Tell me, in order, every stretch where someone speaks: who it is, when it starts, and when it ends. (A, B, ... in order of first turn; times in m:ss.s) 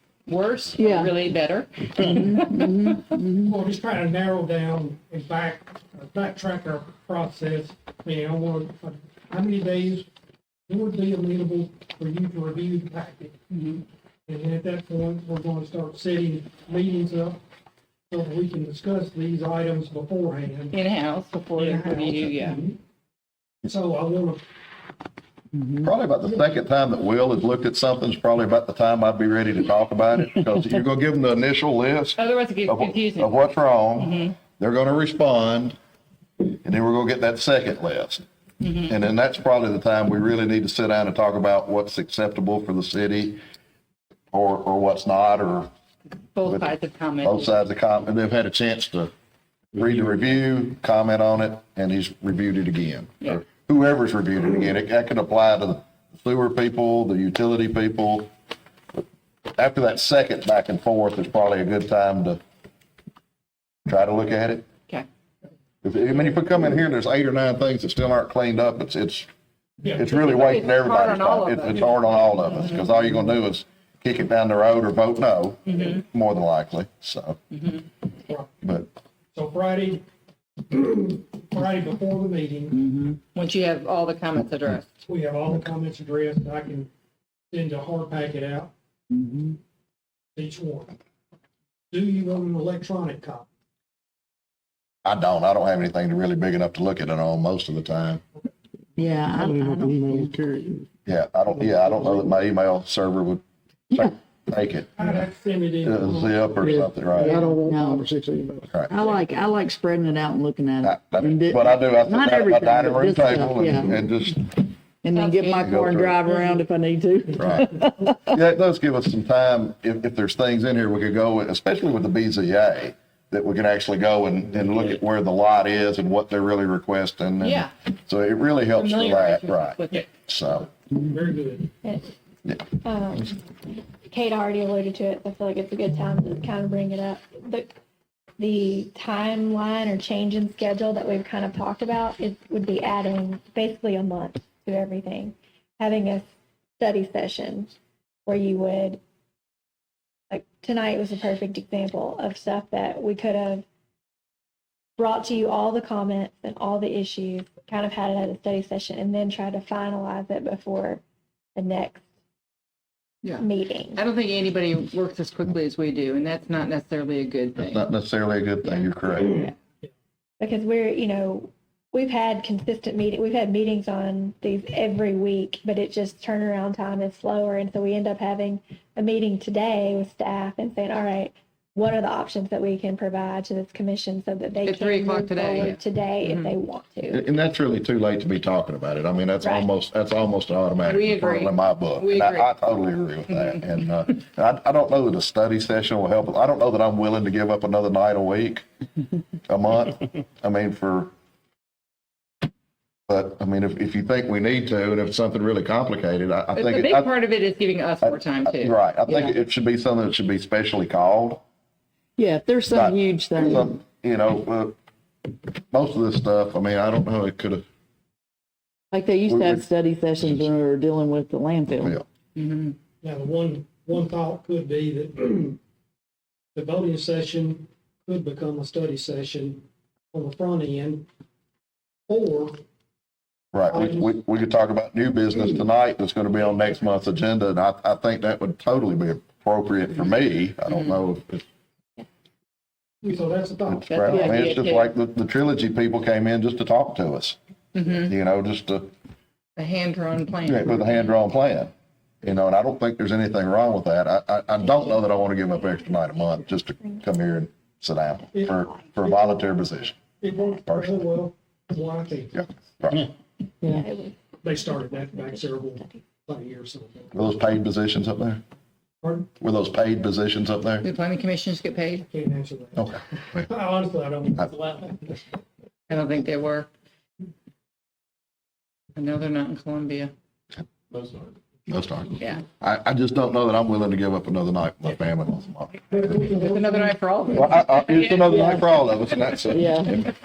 0:00.2-0:03.0 A
0:00.8-0:01.1 B
0:02.0-0:03.6 B
0:03.4-0:10.1 C
0:10.7-0:13.3 C
0:13.5-0:13.8 A
0:14.3-0:17.4 C
0:18.1-0:20.8 C
0:20.7-0:22.6 A
0:21.4-0:22.8 C
0:23.6-0:24.4 C
0:25.8-0:35.8 D
0:32.2-0:33.4 A
0:34.0-0:34.3 A
0:36.4-0:38.2 D
0:38.6-0:39.0 A
0:38.9-0:43.4 D
0:44.3-0:45.7 D
0:46.3-0:47.5 A
0:47.2-0:49.1 D
0:49.7-0:58.3 D
0:59.5-1:02.4 D
1:03.8-1:04.6 D
1:05.8-1:09.3 D
1:09.8-1:10.2 C
1:09.9-1:17.4 D
1:10.2-1:12.8 A
1:15.7-1:16.0 A
1:18.6-1:18.9 D
1:19.3-1:20.0 C
1:20.7-1:22.8 C
1:23.3-1:25.0 A
1:25.1-1:26.9 C
1:27.5-1:28.7 C
1:29.1-1:29.6 B
1:30.3-1:31.0 C
1:31.9-1:33.5 C
1:35.0-1:38.2 D
1:39.0-1:40.4 B
1:39.4-1:40.8 E
1:41.0-1:45.0 D
1:45.0-1:46.7 C
1:45.8-1:47.5 D
1:47.2-1:48.1 B
1:47.2-1:48.6 E
1:48.9-1:54.0 B
1:50.8-1:54.5 D
1:55.0-1:58.3 B
1:55.1-1:55.8 A
1:55.6-1:56.2 D
1:57.4-1:57.7 D
1:58.2-2:10.7 D
2:07.4-2:07.7 A
2:08.8-2:10.0 A
2:10.6-2:11.7 C
2:11.8-2:12.1 F
2:12.8-2:13.4 F
2:14.1-2:17.7 F
2:18.4-2:26.2 F
2:26.8-2:27.7 F
2:28.2-2:29.0 F
2:30.3-2:33.6 F
2:35.0-2:41.0 F
2:41.5-2:42.0 F
2:43.2-2:47.9 A
2:43.4-2:44.0 F
2:47.6-2:49.5 D
2:48.6-2:48.9 A
2:50.4-3:07.2 F
3:04.6-3:06.5 A
3:07.1-3:18.6 D
3:09.4-3:09.7 F
3:10.8-3:12.5 A
3:19.5-3:21.1 D
3:23.1-3:27.1 D
3:26.5-3:28.8 A
3:28.0-3:31.4 D
3:32.2-3:33.8 B
3:32.7-3:34.7 D
3:35.7-3:37.6 D
3:38.9-3:42.0 B
3:39.3-3:39.6 D
3:40.2-3:40.5 D
3:42.4-3:42.8 A
3:43.0-3:45.6 C
3:46.5-3:51.1 C
3:52.1-3:52.6 C
3:53.5-4:01.4 D
3:53.7-3:54.2 C
4:03.0-4:03.9 C
4:03.6-4:07.4 D
4:03.9-4:04.9 A
4:07.7-4:08.1 A
4:08.0-4:08.9 D
4:09.6-4:11.1 A
4:10.4-4:11.7 D
4:12.2-4:20.0 D
4:18.3-4:22.4 C
4:20.6-4:21.0 D
4:22.3-4:23.1 D
4:23.6-4:26.0 F
4:24.4-4:27.2 C
4:27.1-4:28.4 D
4:29.0-4:29.3 C
4:29.4-4:30.8 D
4:30.8-4:32.1 A
4:32.1-4:35.2 C
4:32.8-4:33.4 D
4:35.9-4:36.7 A
4:39.0-4:40.1 A
4:41.7-4:46.1 D
4:45.9-4:47.0 C
4:46.4-4:48.7 A
4:47.3-4:49.7 D
4:48.3-4:48.6 B
4:49.5-4:50.0 B